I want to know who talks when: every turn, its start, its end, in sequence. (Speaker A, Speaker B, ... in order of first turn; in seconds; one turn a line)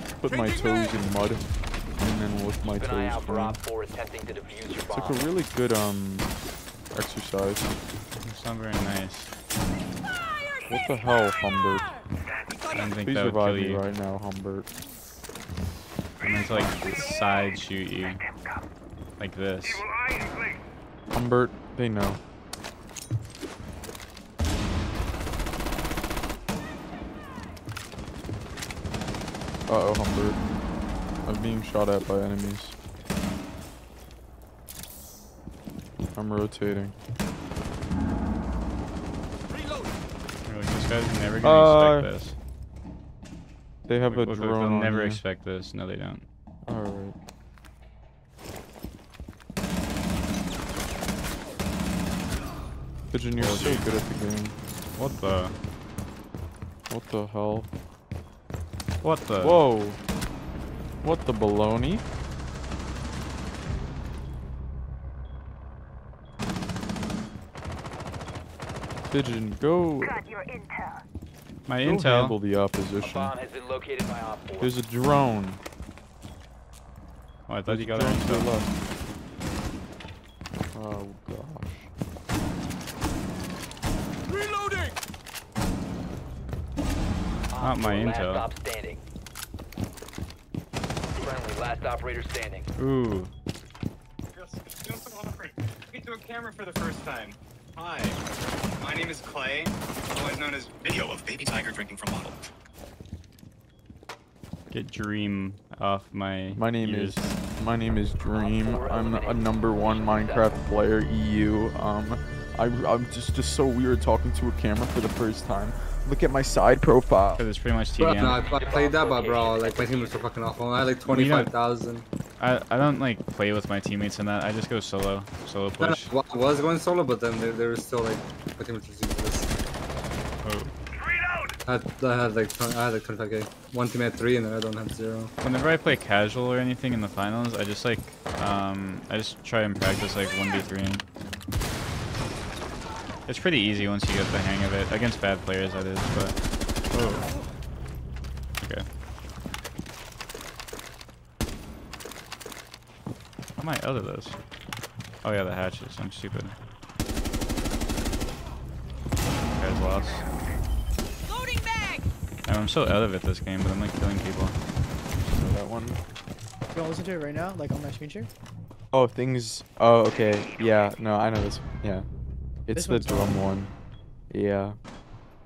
Speaker A: 0.2-1.4
Speaker A: 2.0-3.6
Speaker B: 2.7-5.2
Speaker A: 4.9-6.3
Speaker A: 6.9-7.8
Speaker C: 8.2-9.3
Speaker A: 10.7-11.9
Speaker C: 12.7-13.8
Speaker A: 13.0-14.7
Speaker C: 16.2-18.2
Speaker A: 16.5-17.1
Speaker C: 19.2-19.9
Speaker A: 21.1-22.2
Speaker A: 29.7-30.4
Speaker A: 31.2-32.8
Speaker A: 36.1-37.0
Speaker C: 40.5-42.4
Speaker A: 41.4-42.1
Speaker A: 43.9-45.2
Speaker C: 44.1-46.3
Speaker A: 46.6-47.2
Speaker A: 53.1-54.6
Speaker C: 53.4-53.9
Speaker C: 55.0-55.6
Speaker A: 56.9-57.7
Speaker C: 59.0-59.6
Speaker A: 59.4-60.0
Speaker A: 61.0-62.0
Speaker A: 69.1-70.2
Speaker C: 71.7-72.4
Speaker A: 71.8-73.3
Speaker B: 73.0-74.7
Speaker A: 74.6-75.6
Speaker C: 77.5-78.5
Speaker A: 77.7-78.7
Speaker A: 80.7-81.9
Speaker B: 87.5-89.0
Speaker C: 87.6-88.5
Speaker B: 91.2-92.7
Speaker C: 92.8-93.3
Speaker D: 94.3-98.2
Speaker D: 98.8-102.5
Speaker C: 104.7-107.3
Speaker A: 106.5-117.4
Speaker B: 108.3-110.6
Speaker C: 117.4-118.4
Speaker E: 118.0-122.1
Speaker B: 118.5-120.3
Speaker C: 121.0-121.5
Speaker C: 122.4-126.1
Speaker E: 125.8-129.5
Speaker C: 130.4-130.7
Speaker E: 131.7-135.3
Speaker C: 135.4-141.0
Speaker C: 143.3-146.4
Speaker C: 146.9-147.3
Speaker C: 148.6-148.9
Speaker C: 153.6-154.4
Speaker C: 155.2-156.6
Speaker C: 159.5-160.3
Speaker C: 162.4-164.6
Speaker A: 165.3-166.0
Speaker F: 166.7-168.3
Speaker A: 168.9-172.1
Speaker A: 172.7-173.7
Speaker F: 172.7-173.4
Speaker A: 174.3-174.8